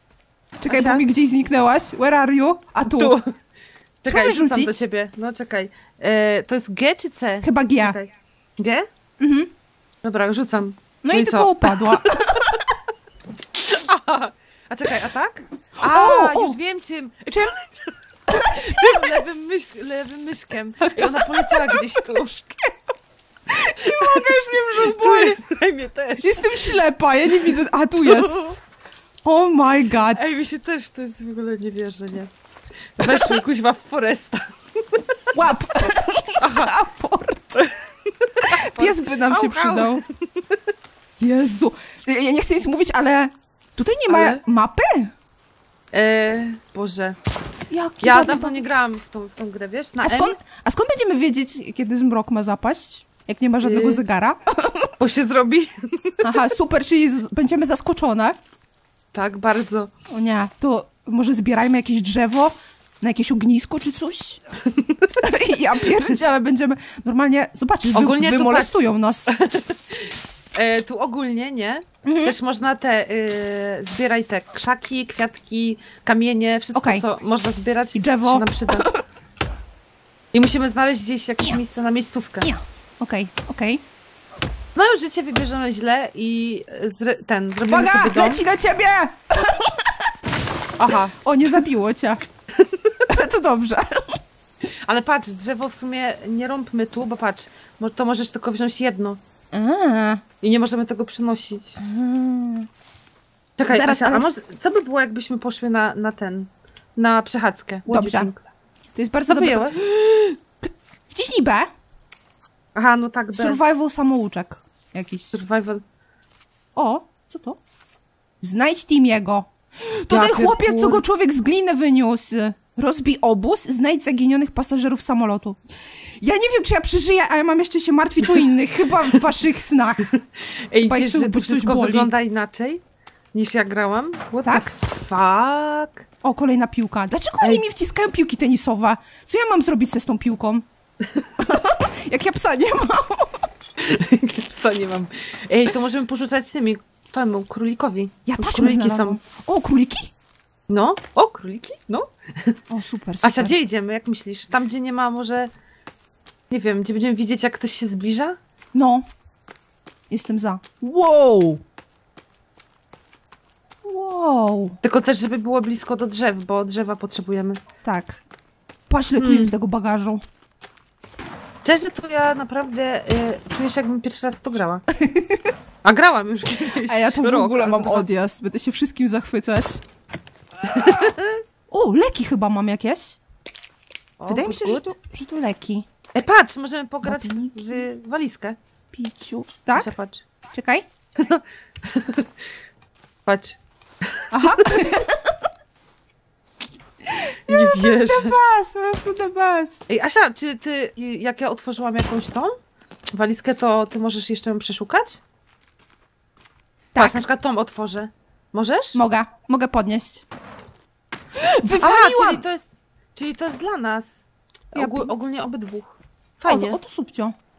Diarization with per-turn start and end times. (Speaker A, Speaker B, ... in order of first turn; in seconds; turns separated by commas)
Speaker A: 0.6-3.1, Speaker B: 0.7-1.1, Speaker B: 2.9-3.3, Speaker B: 4.0-8.8, Speaker A: 4.0-4.8, Speaker A: 7.4-8.0, Speaker A: 9.2-9.5, Speaker B: 10.0-12.6, Speaker A: 11.0-12.6, Speaker B: 13.6-22.3, Speaker A: 15.8-16.6, Speaker A: 18.3-19.4, Speaker A: 20.9-22.8, Speaker A: 23.5-25.4, Speaker B: 23.8-26.8, Speaker A: 26.2-28.6, Speaker B: 28.0-28.6, Speaker A: 29.2-30.4, Speaker B: 30.1-32.3, Speaker B: 33.0-35.0, Speaker A: 33.0-33.3, Speaker A: 35.3-37.6, Speaker B: 36.4-36.7, Speaker B: 37.5-40.6, Speaker A: 38.4-40.0, Speaker A: 41.2-45.1, Speaker B: 44.1-44.4, Speaker B: 45.9-47.2, Speaker A: 47.7-48.7, Speaker B: 48.0-50.4, Speaker A: 50.0-54.9, Speaker B: 53.6-54.0, Speaker B: 55.0-56.4, Speaker A: 56.2-58.4, Speaker B: 59.1-59.9, Speaker A: 60.1-64.4, Speaker B: 64.7-65.2, Speaker A: 65.2-69.3, Speaker B: 67.9-78.9, Speaker A: 72.0-72.3, Speaker A: 76.7-77.0, Speaker A: 77.9-79.0, Speaker B: 80.3-82.5, Speaker A: 82.4-83.8, Speaker B: 84.7-88.4, Speaker A: 87.7-90.1, Speaker B: 90.8-91.1, Speaker A: 91.2-92.2, Speaker B: 92.6-93.0, Speaker A: 93.1-94.2, Speaker B: 94.8-99.2, Speaker A: 99.5-100.2, Speaker B: 100.4-101.8, Speaker A: 101.8-102.7, Speaker B: 103.6-108.4, Speaker A: 103.7-104.3, Speaker A: 107.9-108.3, Speaker A: 108.9-111.7, Speaker B: 109.3-109.8, Speaker B: 112.8-113.6, Speaker A: 113.3-115.4, Speaker B: 115.3-115.8, Speaker A: 116.7-117.6, Speaker A: 118.4-130.2, Speaker B: 120.1-121.0, Speaker B: 130.1-132.8, Speaker A: 130.8-132.1, Speaker B: 133.3-136.1, Speaker A: 134.4-134.7, Speaker A: 136.2-140.7, Speaker A: 141.4-143.5, Speaker B: 143.8-149.2, Speaker A: 148.3-150.1, Speaker B: 150.7-152.6, Speaker A: 152.7-153.6, Speaker B: 153.2-155.5, Speaker B: 156.5-158.4, Speaker A: 158.7-159.1, Speaker A: 160.1-161.6, Speaker A: 163.8-164.8, Speaker B: 164.8-167.6, Speaker A: 167.8-168.2, Speaker A: 168.9-170.2, Speaker B: 169.2-169.5, Speaker B: 171.6-174.8, Speaker A: 174.9-175.5, Speaker B: 175.8-178.1, Speaker A: 176.8-179.8, Speaker B: 180.6-181.4, Speaker A: 181.7-183.2, Speaker B: 184.2-184.9, Speaker A: 184.3-185.8, Speaker B: 186.1-188.6, Speaker A: 187.0-187.8, Speaker A: 188.9-189.9, Speaker B: 189.7-190.2, Speaker A: 190.5-190.8, Speaker B: 191.2-192.3, Speaker B: 193.2-194.7, Speaker A: 194.3-195.4, Speaker A: 197.1-199.8, Speaker B: 197.5-198.4, Speaker B: 199.9-202.5, Speaker B: 203.1-205.2, Speaker A: 206.9-207.2, Speaker B: 207.0-209.0, Speaker A: 208.9-210.2, Speaker A: 211.3-212.4, Speaker B: 211.7-216.8, Speaker A: 214.7-215.1, Speaker A: 216.4-217.3